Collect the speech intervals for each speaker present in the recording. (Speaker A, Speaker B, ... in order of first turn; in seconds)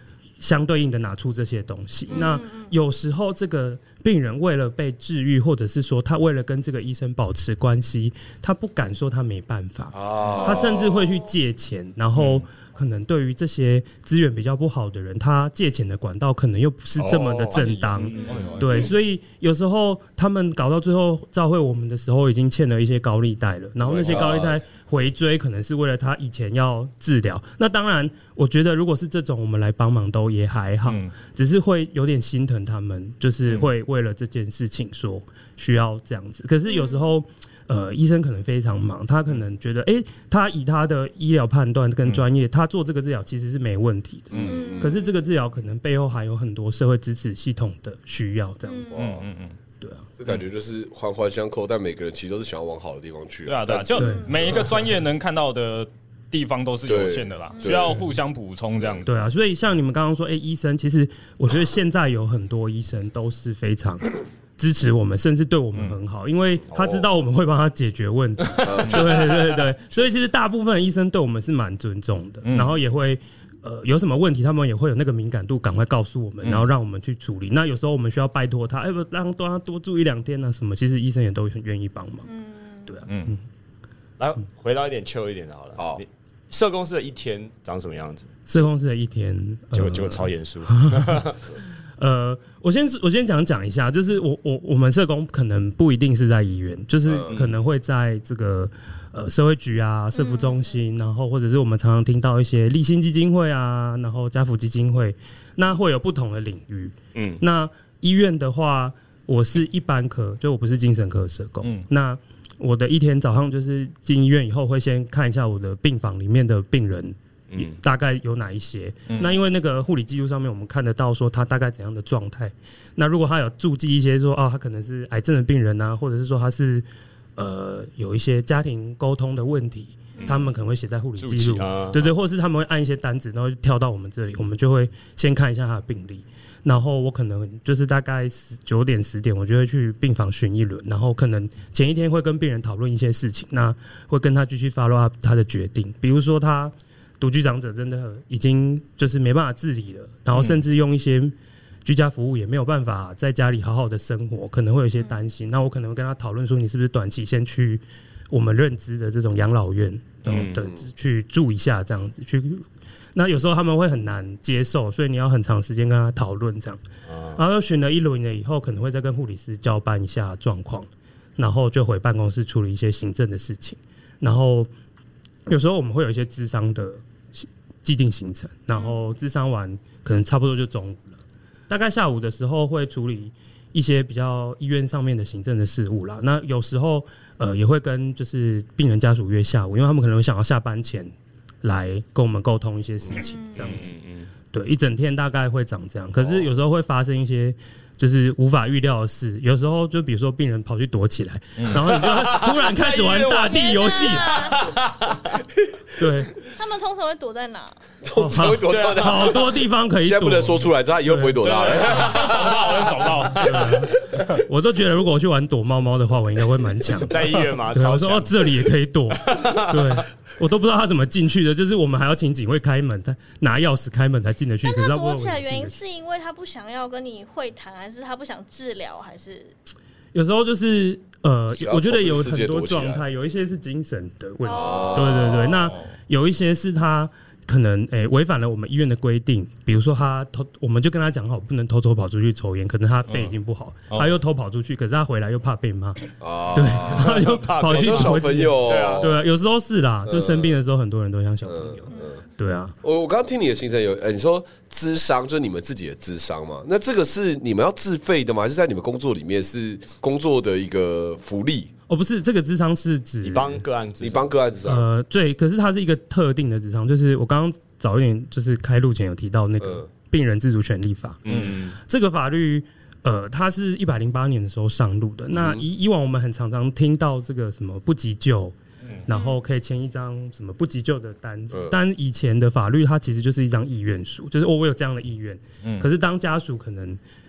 Speaker A: 0.4-48.9, 49.8-50.1, 53.9-54.3, 59.0-82.3, 82.8-83.4, 88.5-91.2, 92.0-126.8, 127.4-151.3, 151.8-166.8, 167.3-174.7, 175.5-193.9, 194.5-204.4, 205.9-206.3, 208.1-211.4, 213.4-225.8, 230.1-252.7, 261.9-263.6, 264.6-278.5, 279.1-287.0
Speaker B: 2.1-2.7, 36.7-37.1, 44.4-45.1, 48.6-49.0, 54.0-54.3, 82.2-83.0, 100.1-100.8, 130.2-130.4, 178.7-179.0, 193.1-193.8, 203.4-204.7, 206.4-207.8, 224.6-229.5, 234.4-235.4, 251.9-252.2, 279.1-279.4
Speaker C: 9.9-11.2, 23.8-24.6, 44.3-45.0, 48.9-49.2, 50.2-54.7, 56.9-58.0, 68.6-69.4, 85.8-86.0, 97.0-97.3, 160.4-160.8, 208.0-213.0, 231.5-233.0, 234.5-235.5, 246.2-249.2, 250.1-250.6, 251.5-252.2, 252.8-261.7, 264.0-264.9, 269.6-269.9, 275.3-275.6
Speaker D: 10.2-10.6, 17.0-18.9, 84.2-88.6, 89.7-91.4, 97.3-97.6, 107.1-107.4, 117.5-117.8, 131.2-132.1, 160.2-160.7, 167.1-167.4, 193.6-194.3, 196.2-196.5, 201.9-205.4, 208.6-209.4, 211.8-213.8, 217.1-218.7, 219.2-220.0, 246.8-249.2, 263.2-264.3, 271.2-271.8
Speaker E: 12.2-12.4, 17.5-18.8, 30.8-31.1, 48.9-49.5, 53.5-59.1, 68.8-69.1, 72.4-72.8, 83.1-83.4, 119.1-119.3, 201.6-201.8, 211.4-213.6, 235.6-235.9, 243.9-244.2, 285.6-285.9